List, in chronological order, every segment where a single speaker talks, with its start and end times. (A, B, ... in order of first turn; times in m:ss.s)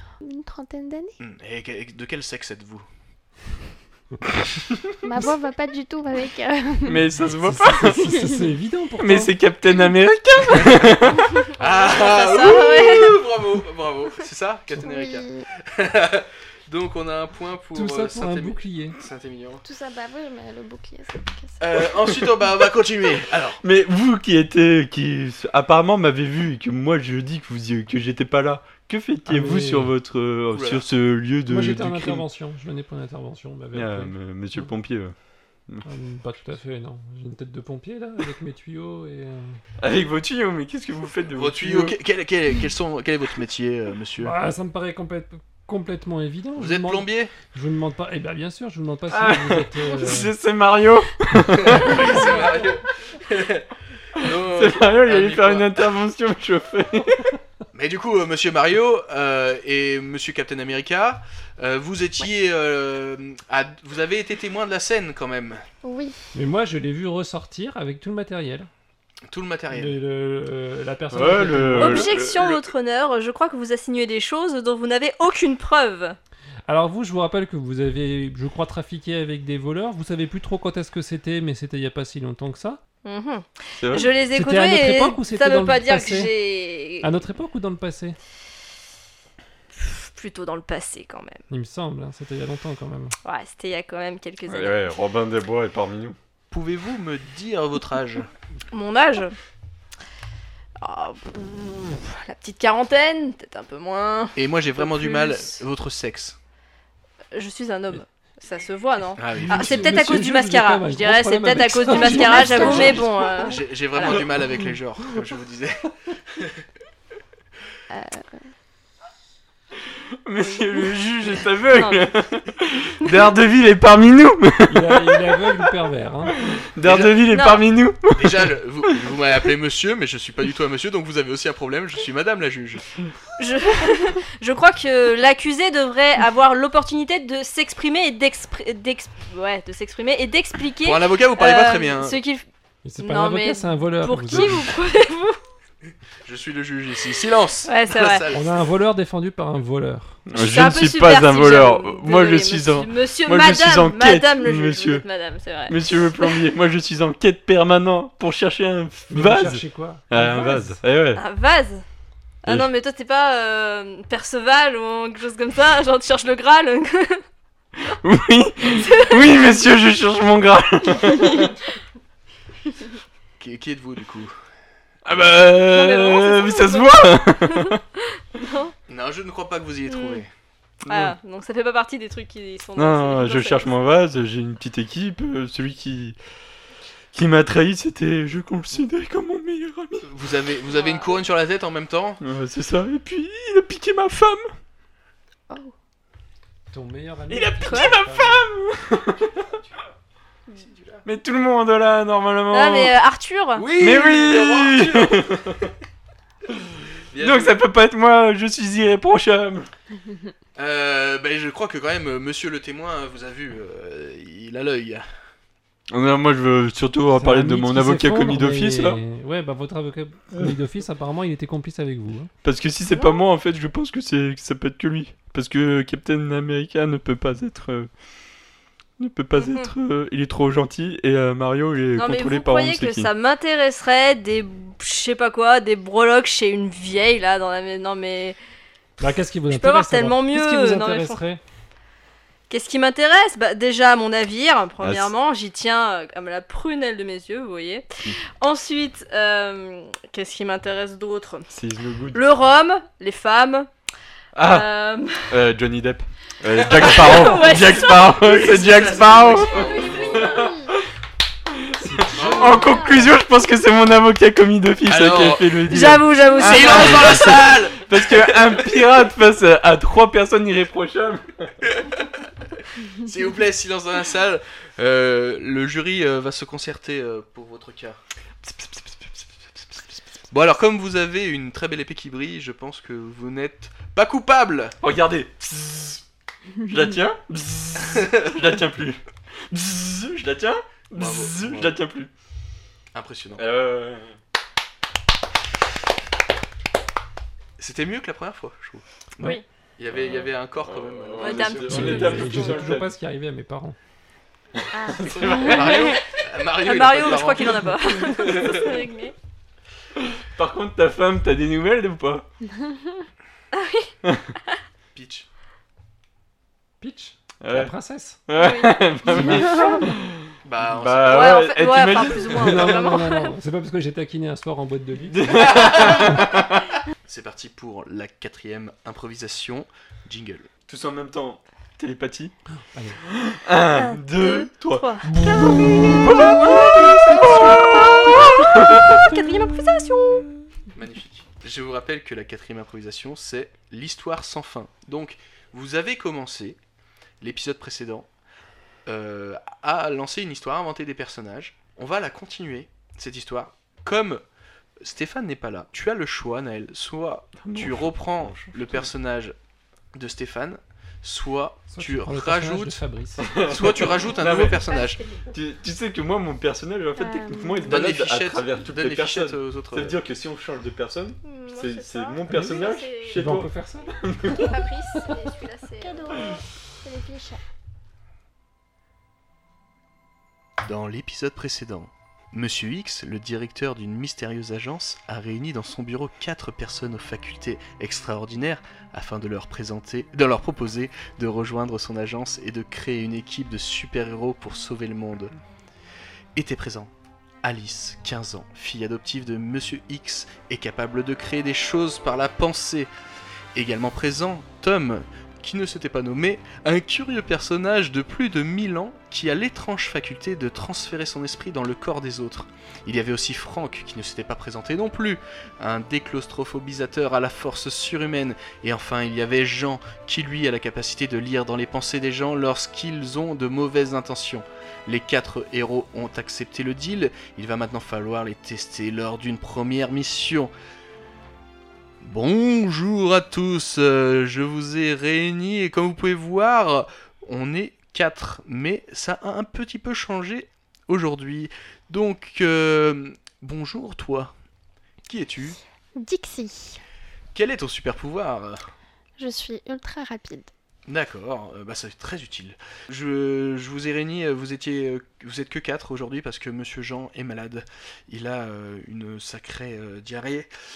0:00.2-0:01.2 A
0:01.2-0:02.8 B
0:05.0-0:07.1 A
0:06.9-0:08.2 C
0:07.2-0:09.3 D
0:08.0-0:08.4 A
0:09.0-0:11.5 C
0:10.5-0:11.0 B
0:11.5-0:19.6 B
0:11.6-0:13.2 E
0:14.8-0:15.5 A
0:17.7-0:19.0 D
0:19.6-0:21.6 A
0:21.6-0:23.6 B
0:23.6-0:32.2 C
0:29.3-0:29.9 D
0:30.5-0:30.8 B
0:31.5-0:34.2 D
0:33.7-0:35.1 C
0:35.8-0:39.6 D
0:39.8-0:42.0 C
0:41.3-0:44.3 B
0:44.2-0:50.3 D
0:46.6-0:47.3 B
0:49.1-0:52.2 C
0:51.5-0:55.8 B
0:54.2-0:57.3 C
0:57.7-1:05.6 B
1:05.8-1:06.2 A
1:06.4-1:08.7 D
1:09.3-1:10.0 B
1:09.7-1:12.1 D
1:11.1-1:12.7 C
1:11.8-1:16.2 E
1:16.7-1:22.8 D
1:23.0-1:27.1 E
1:23.8-1:24.1 C
1:24.3-1:26.3 D
1:27.0-1:28.2 D
1:29.8-1:31.4 E
1:31.5-1:33.1 D
1:33.2-1:34.8 E
1:34.5-1:36.2 C
1:36.5-1:38.3 B
1:38.7-1:39.4 E
1:40.8-1:45.6 E
1:44.4-1:46.4 B
1:47.3-1:54.2 E
1:49.2-1:50.0 B
1:49.4-1:53.0 D
1:52.0-1:53.6 A
1:52.1-1:56.6 B
1:54.0-1:54.3 C
1:57.9-1:58.4 A
2:00.2-2:05.6 C
2:01.7-2:02.1 E
2:04.7-2:06.4 D
2:06.4-2:09.1 C
2:06.8-2:07.3 B
2:07.3-2:07.6 E
2:08.1-2:12.8 B
2:13.4-2:22.4 E
2:20.8-2:22.2 B
2:22.8-2:24.7 D
2:23.0-2:25.4 E
2:26.2-2:28.6 B
2:27.7-2:28.3 E
2:28.3-2:30.2 D
2:30.3-2:35.0 C
2:30.4-2:36.5 E
2:35.7-2:41.2 C
2:39.1-2:40.8 D
2:41.2-2:41.8 E
2:42.4-2:47.2 E
2:47.9-2:51.6 C
2:48.8-2:49.2 E
2:51.2-2:51.5 E
2:53.4-2:54.3 B
2:55.0-2:57.8 C
2:55.7-2:58.7 E
2:58.9-3:00.3 B
2:59.9-3:00.2 E
3:00.8-3:01.2 C
3:00.9-3:03.7 E
3:02.8-3:06.2 C
3:07.1-3:10.1 C
3:10.0-3:12.2 B
3:10.7-3:11.2 E
3:12.2-3:14.5 C
3:16.7-3:18.5 D
3:17.3-3:19.4 C
3:17.6-3:18.0 E
3:19.4-3:19.8 B
3:20.5-3:21.0 B
3:21.0-3:22.9 C
3:22.5-3:23.7 E
3:23.6-3:25.3 B
3:23.8-3:25.7 C
3:27.1-3:27.6 B
3:27.2-3:29.7 C
3:30.6-3:35.0 B
3:35.9-3:39.0 C
3:37.1-3:42.3 D
3:42.4-3:47.9 C
3:42.9-3:43.2 E
3:49.0-3:53.1 C
3:49.4-3:49.7 E
3:52.0-3:58.4 E
3:59.0-4:01.4 D
3:59.5-4:01.2 E
4:02.5-4:11.5 E
4:04.8-4:05.1 C
4:11.5-4:12.2 C
4:12.1-4:13.7 E
4:14.4-4:14.7 C
4:14.4-4:15.4 E
4:15.3-4:20.8 C
4:16.5-4:20.4 B
4:16.7-4:20.5 E
4:20.2-4:20.7 A
4:21.5-4:31.6 C
4:21.8-4:22.7 D
4:22.1-4:22.9 B
4:24.9-4:25.6 B
4:25.7-4:27.5 E
4:26.4-4:28.8 B
4:31.8-4:32.0 B
4:33.0-4:38.0 B
4:38.4-4:39.7 C
4:40.3-4:44.8 B
4:44.8-4:46.0 C
4:46.6-4:52.1 C
4:47.8-4:48.3 B
4:51.0-4:51.8 B
4:52.9-4:53.4 B
4:53.4-4:54.1 C
4:57.6-5:02.5 B
4:59.9-5:02.9 C
5:01.2-5:02.5 E
5:01.7-5:03.8 D
5:04.6-5:06.0 C
5:04.9-5:08.7 B
5:05.4-5:06.0 E
5:06.6-5:09.2 E
5:08.2-5:08.7 C
5:10.0-5:12.3 C
5:13.5-5:13.9 E
5:14.0-5:14.3 C
5:14.9-5:15.3 B
5:16.8-5:18.2 D
5:17.4-5:17.7 C
5:18.3-5:22.8 C
5:18.4-5:19.7 E
5:19.1-5:19.7 D
5:19.1-5:19.8 A
5:20.4-5:22.1 B
5:21.0-5:23.4 E
5:22.4-5:25.4 D
5:25.1-5:26.7 C
5:25.4-5:26.4 B
5:27.0-5:30.5 B
5:30.7-5:32.4 C
5:32.7-5:33.0 D
5:33.0-5:39.1 C
5:33.7-5:40.3 E
5:40.7-5:46.6 B
5:47.2-5:48.1 B
5:48.9-5:54.2 B
5:54.8-5:59.4 B
5:57.4-5:58.9 C
5:59.9-6:02.8 B
6:01.7-6:03.3 D
6:03.2-6:04.6 C
6:03.4-6:05.0 B
6:05.3-6:14.6 C
6:07.0-6:07.7 A
6:07.6-6:10.0 B
6:11.2-6:13.3 E
6:12.3-6:12.6 D
6:13.2-6:14.0 D
6:14.3-6:16.3 E
6:15.8-6:17.4 A
6:20.6-6:35.3 B
6:36.4-6:36.9 B
6:37.4-6:42.9 B
6:43.6-7:10.5 B
7:12.0-7:24.3 B
7:25.1-7:25.6 B
7:26.0-7:26.8 A
7:27.3-7:28.7 B
7:29.2-7:30.5 A
7:30.9-7:40.5 B